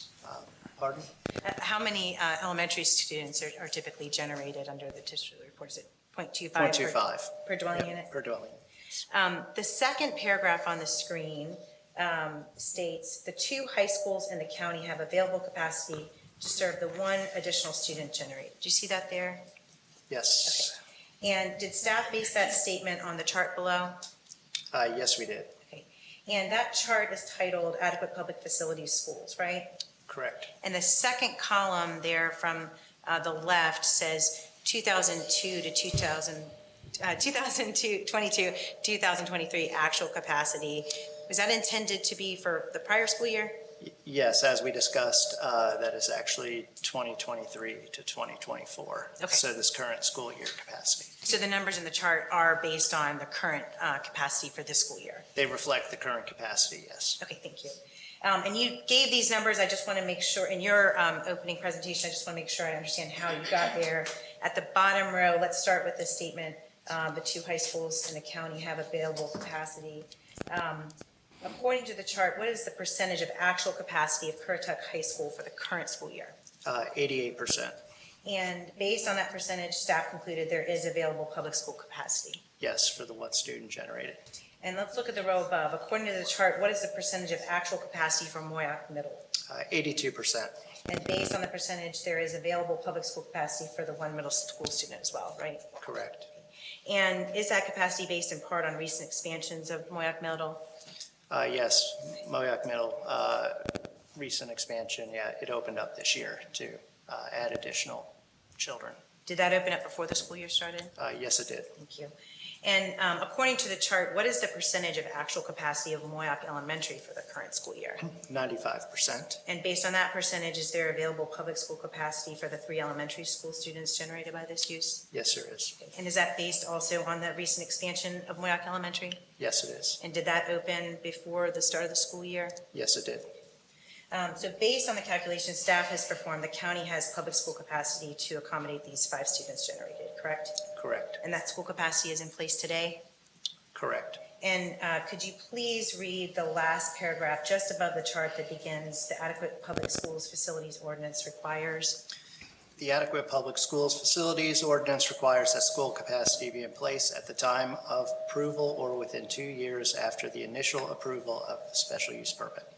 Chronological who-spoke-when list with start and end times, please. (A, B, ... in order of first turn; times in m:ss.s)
0:00.2-0:01.1 A
0:01.4-0:08.1 B
0:06.6-0:08.6 A
0:09.1-0:19.4 B
0:20.1-0:20.8 A
0:21.2-0:24.0 B
0:24.7-0:25.5 A
0:25.7-0:29.7 B
0:30.1-0:30.5 A
0:30.6-0:43.6 B
0:43.8-0:51.1 A
0:51.2-0:55.3 B
0:55.4-0:57.2 A
0:57.2-1:16.4 B
1:16.6-1:17.8 A
1:18.2-1:22.4 B
1:22.6-1:24.2 A
1:24.6-1:29.2 B
1:29.5-1:30.5 A
1:30.9-1:35.7 B
1:35.8-1:36.3 A
1:36.9-1:40.6 B
1:41.3-1:49.0 A
1:49.3-1:50.9 B
1:51.0-1:51.8 A
1:51.8-1:58.1 B
1:58.1-1:59.4 A
1:59.5-2:05.0 B
2:05.1-2:05.8 A
2:05.8-2:09.2 B
2:09.4-2:10.0 A
2:10.0-2:12.6 B
2:12.7-2:13.3 A
2:14.1-2:20.6 B
2:20.8-2:21.2 A
2:21.2-2:23.0 B
2:23.7-2:24.2 A
2:24.4-2:32.0 B
2:32.8-2:42.7 A